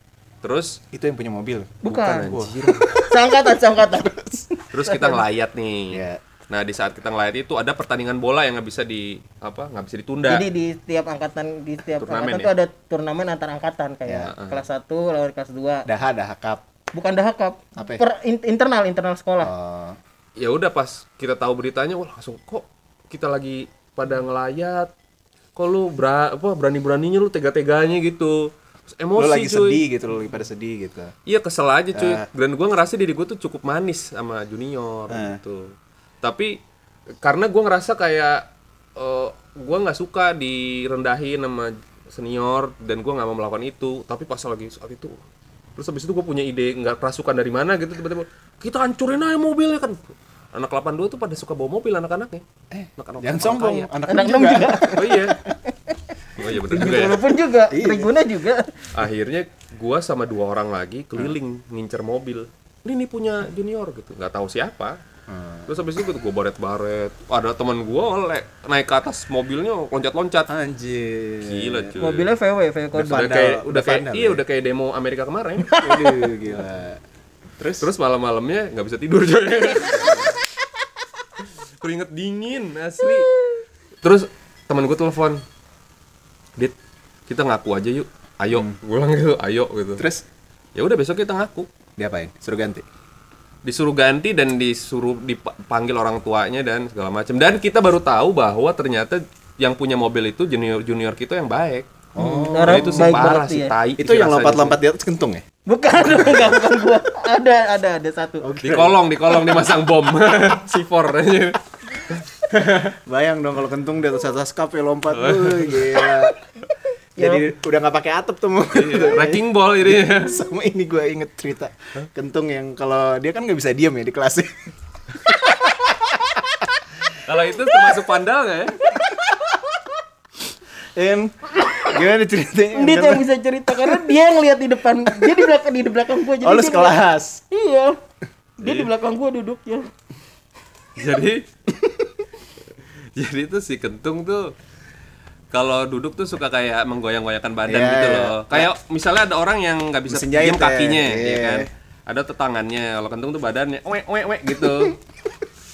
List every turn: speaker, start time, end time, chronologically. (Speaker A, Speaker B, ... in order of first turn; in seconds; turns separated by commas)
Speaker A: 0.4-0.8, Speaker B: 0.9-3.4, Speaker C: 1.8-2.4, Speaker A: 1.9-2.9, Speaker C: 3.1-5.2, Speaker B: 4.0-4.4, Speaker A: 4.7-10.4, Speaker B: 5.9-6.2, Speaker C: 10.2-15.9, Speaker A: 11.9-12.5, Speaker B: 14.0-14.3, Speaker A: 14.3-14.7, Speaker B: 15.9-16.6, Speaker C: 16.9-19.5, Speaker B: 17.8-18.0, Speaker B: 19.4-20.0, Speaker A: 20.4-24.9, Speaker A: 25.6-29.9, Speaker B: 29.1-31.1, Speaker A: 31.2-36.6, Speaker B: 31.9-32.2, Speaker B: 35.1-35.4, Speaker A: 37.2-45.2, Speaker A: 45.8-52.4, Speaker B: 52.7-55.6, Speaker A: 53.0-53.9, Speaker C: 54.1-55.9, Speaker A: 54.9-55.4, Speaker A: 56.4-57.2, Speaker C: 56.6-58.9, Speaker B: 56.8-57.1, Speaker B: 57.7-58.1, Speaker A: 58.9-65.0, Speaker B: 65.3-65.8, Speaker A: 65.7-70.5, Speaker B: 70.5-72.0, Speaker A: 71.5-72.3, Speaker C: 72.0-73.2, Speaker B: 72.9-74.4, Speaker A: 73.0-75.7, Speaker C: 75.6-76.3, Speaker B: 75.8-77.0, Speaker B: 77.6-77.9, Speaker A: 77.8-80.4, Speaker A: 81.4-83.3, Speaker A: 84.0-85.4, Speaker A: 87.3-90.0, Speaker B: 90.0-90.2, Speaker A: 90.8-91.7, Speaker B: 92.0-92.8, Speaker A: 93.6-104.8, Speaker B: 102.1-103.3, Speaker C: 102.2-103.7, Speaker B: 104.0-105.4, Speaker C: 105.7-108.4, Speaker B: 108.4-109.7, Speaker A: 108.6-112.9, Speaker B: 113.0-116.4, Speaker A: 115.1-116.2, Speaker C: 117.2-117.5, Speaker B: 117.2-124.7, Speaker A: 118.7-120.4, Speaker B: 125.3-126.6, Speaker A: 127.2-128.9, Speaker B: 130.9-134.2, Speaker C: 132.7-137.9, Speaker B: 135.1-135.4, Speaker B: 136.4-137.4, Speaker A: 138.6-138.9, Speaker C: 138.6-139.9, Speaker A: 140.9-141.5, Speaker A: 143.2-144.5, Speaker A: 145.5-155.0, Speaker B: 147.7-148.7, Speaker B: 150.1-151.7